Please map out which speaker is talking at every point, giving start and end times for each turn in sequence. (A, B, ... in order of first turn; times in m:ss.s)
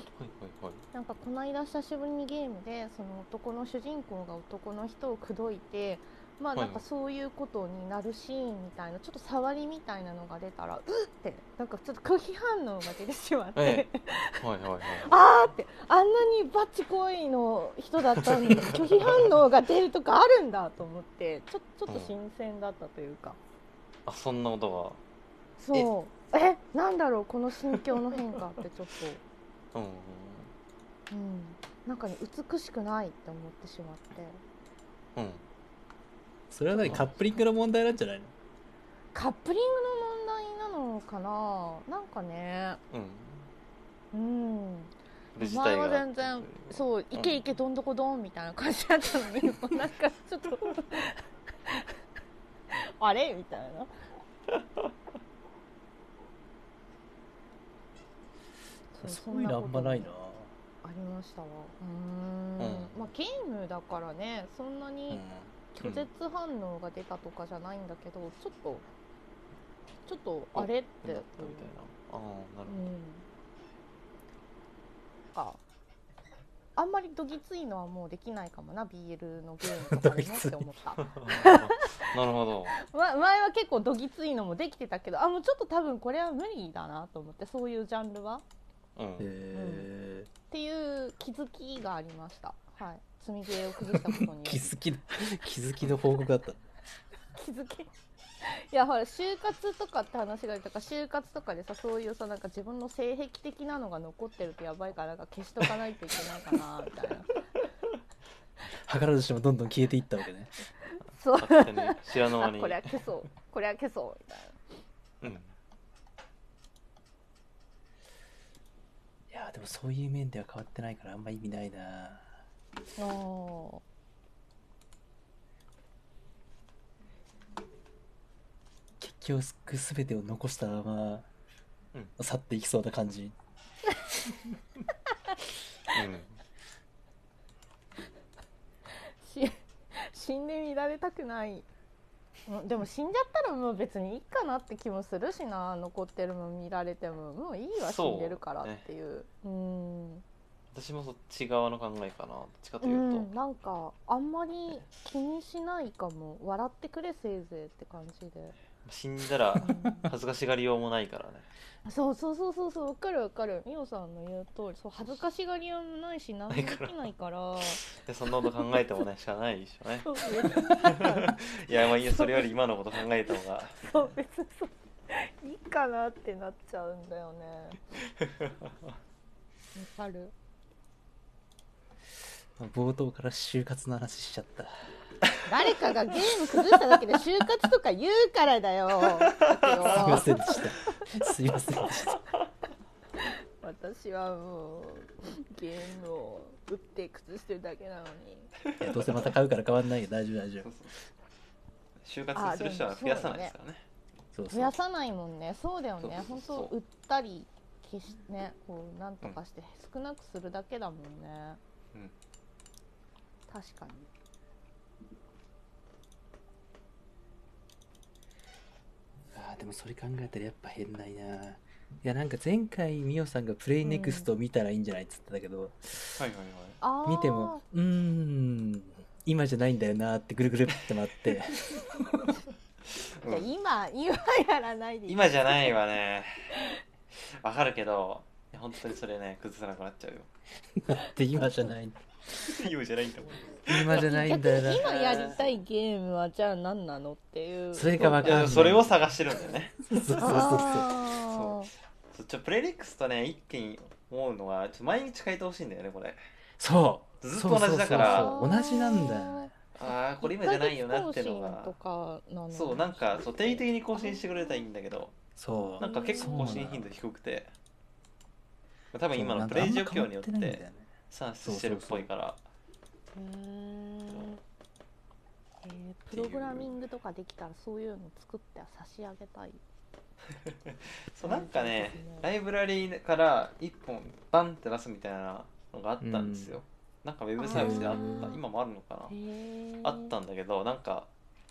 0:00.2-0:00.8 A
0:00.9-0:14.4 B
0:06.6-0:06.8 A
0:13.6-0:13.8 A
0:14.4-0:15.1 A
0:15.0-0:23.4 B
0:18.4-0:19.3 A
0:21.9-0:22.1 A
0:24.0-0:25.0 A
0:25.6-0:29.2 B
0:29.7-0:30.5 A
0:31.1-0:34.4 B
0:35.2-0:35.4 A
0:36.5-0:38.3 C
0:36.8-0:37.1 A
0:39.1-0:42.8 B
0:42.9-0:43.5 A
0:44.1-0:51.9 B
0:45.3-0:47.4 A
0:52.7-0:53.9 B
0:58.9-1:00.1 B
0:59.0-1:00.5 C
1:00.8-1:08.8 B
1:02.6-1:03.0 A
1:05.1-1:05.5 C
1:05.8-1:06.1 A
1:10.1-1:11.7 B
1:10.5-1:12.8 A
1:12.7-1:13.2 B
1:15.3-1:15.6 B
1:16.8-1:21.9 B
1:19.8-1:20.6 C
1:21.0-1:22.7 A
1:22.7-1:28.4 B
1:29.0-1:29.3 A
1:29.2-1:30.3 C
1:29.5-1:29.9 B
1:30.5-1:34.7 B
1:33.9-1:36.6 C
1:37.3-1:37.9 B
1:38.4-1:47.4 B
1:48.9-1:50.5 C
1:50.8-1:54.6 B
1:51.4-1:53.0 A
1:55.2-1:55.5 A
1:59.3-2:02.3 C
2:03.0-2:03.8 B
2:09.0-2:11.2 C
2:12.2-2:13.3 C
2:15.9-2:16.4 A
2:18.9-2:21.7 B
2:22.5-2:30.2 B
2:27.8-2:28.8 A
2:30.7-2:33.3 A
2:32.8-2:38.6 B
2:38.8-2:41.5 A
2:39.6-2:40.1 B
2:41.8-2:47.9 B
2:46.5-2:46.9 A
2:47.7-2:53.8 A
2:48.4-2:48.8 B
2:50.0-2:52.5 B
2:53.8-2:57.8 B
2:59.7-3:00.3 B
3:02.6-3:04.7 C
3:05.4-3:10.9 B
3:09.4-3:09.9 A
3:09.9-3:12.2 C
3:13.2-3:18.5 B
3:18.7-3:19.3 A
3:18.8-3:20.7 C
3:20.6-3:21.0 A
3:22.0-3:23.8 A
3:22.3-3:23.5 B
3:24.3-3:24.7 C
3:24.5-3:31.6 B
3:26.0-3:26.7 A
3:33.5-3:34.1 B
3:39.3-3:46.2 C
3:43.8-3:44.3 B
3:46.2-3:46.8 A
3:46.8-3:47.6 B
3:47.0-3:51.9 C
3:52.9-3:53.5 A
3:53.2-3:55.7 B
3:55.1-3:56.5 A
3:57.1-4:00.3 A
4:00.8-4:02.0 C
4:02.4-4:05.4 A
4:03.6-4:04.9 C
4:04.0-4:08.5 B
4:07.7-4:09.1 C
4:08.0-4:10.6 A
4:09.9-4:10.9 C
4:10.2-4:11.7 B
4:11.2-4:11.6 A
4:12.1-4:16.2 A
4:16.6-4:19.5 C
4:17.2-4:18.4 A
4:17.9-4:19.5 B
4:19.7-4:21.7 A
4:20.2-4:24.6 B
4:22.5-4:25.1 A
4:25.4-4:26.8 C
4:25.8-4:27.5 A
4:25.8-4:26.7 B
4:28.9-4:32.4 A
4:29.1-4:30.9 C
4:31.4-4:32.1 C
4:33.1-4:34.4 B
4:35.6-4:39.6 B
4:36.1-4:36.7 A
4:40.5-4:49.1 A
4:41.2-4:42.3 B
4:46.0-4:46.6 C
4:47.4-4:48.4 B
4:47.5-4:48.3 C
4:49.1-4:50.1 B
4:49.8-4:51.1 A